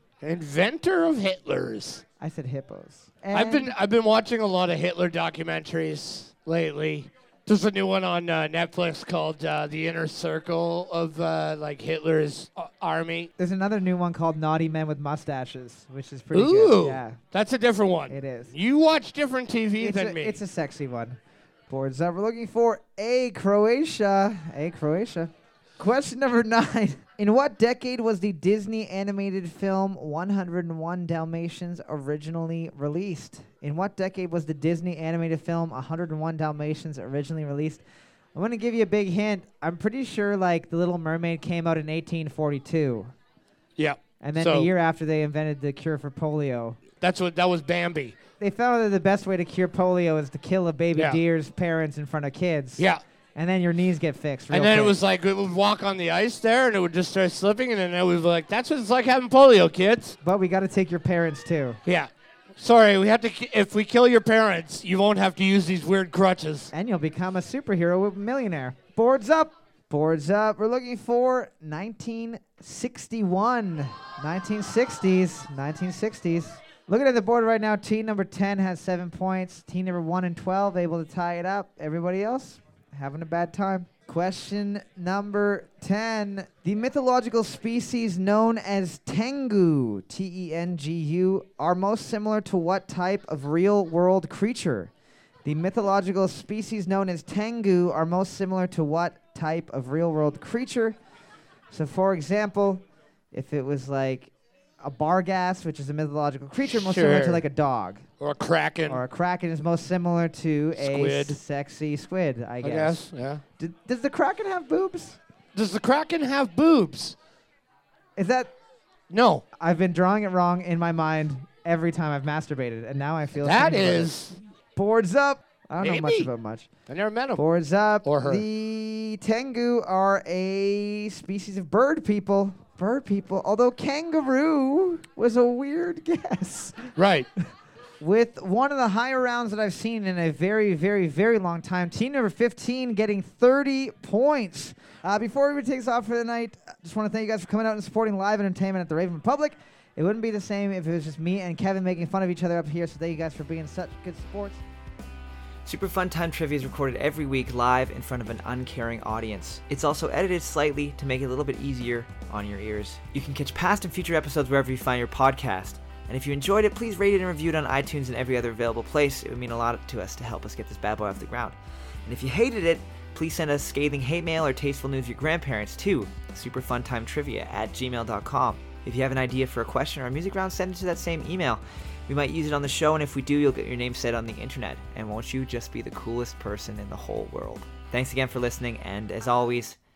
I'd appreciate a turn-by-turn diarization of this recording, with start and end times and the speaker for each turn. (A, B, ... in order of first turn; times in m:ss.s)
0:00.2-0:02.0 A
0:02.2-0:03.7 B
0:03.3-0:13.3 A
0:13.4-0:17.2 B
0:16.3-0:20.4 A
0:18.1-0:18.5 B
0:19.8-0:21.2 B
0:21.7-0:37.8 B
0:38.4-0:43.1 B
0:43.8-0:44.7 A
0:44.2-0:46.8 B
0:47.0-0:48.2 A
0:48.4-0:55.0 B
0:51.0-0:51.2 A
0:54.5-1:00.2 A
1:00.2-1:01.8 B
1:01.8-1:06.7 A
1:06.7-1:34.9 B
1:35.4-1:41.0 B
1:41.7-1:48.0 B
1:46.6-1:47.4 A
1:48.2-1:49.0 A
1:48.9-1:53.0 B
1:50.8-1:51.4 A
1:52.6-1:53.4 A
1:53.6-1:55.2 B
1:55.5-1:57.2 A
1:58.2-1:58.5 B
1:59.1-1:59.4 A
1:59.6-2:04.1 B
2:03.4-2:04.4 A
2:04.8-2:06.7 B
2:05.8-2:06.3 A
2:06.9-2:07.4 A
2:07.4-2:16.9 B
2:08.0-2:08.4 A
2:17.0-2:17.3 A
2:18.0-2:34.6 B
2:35.6-3:09.8 C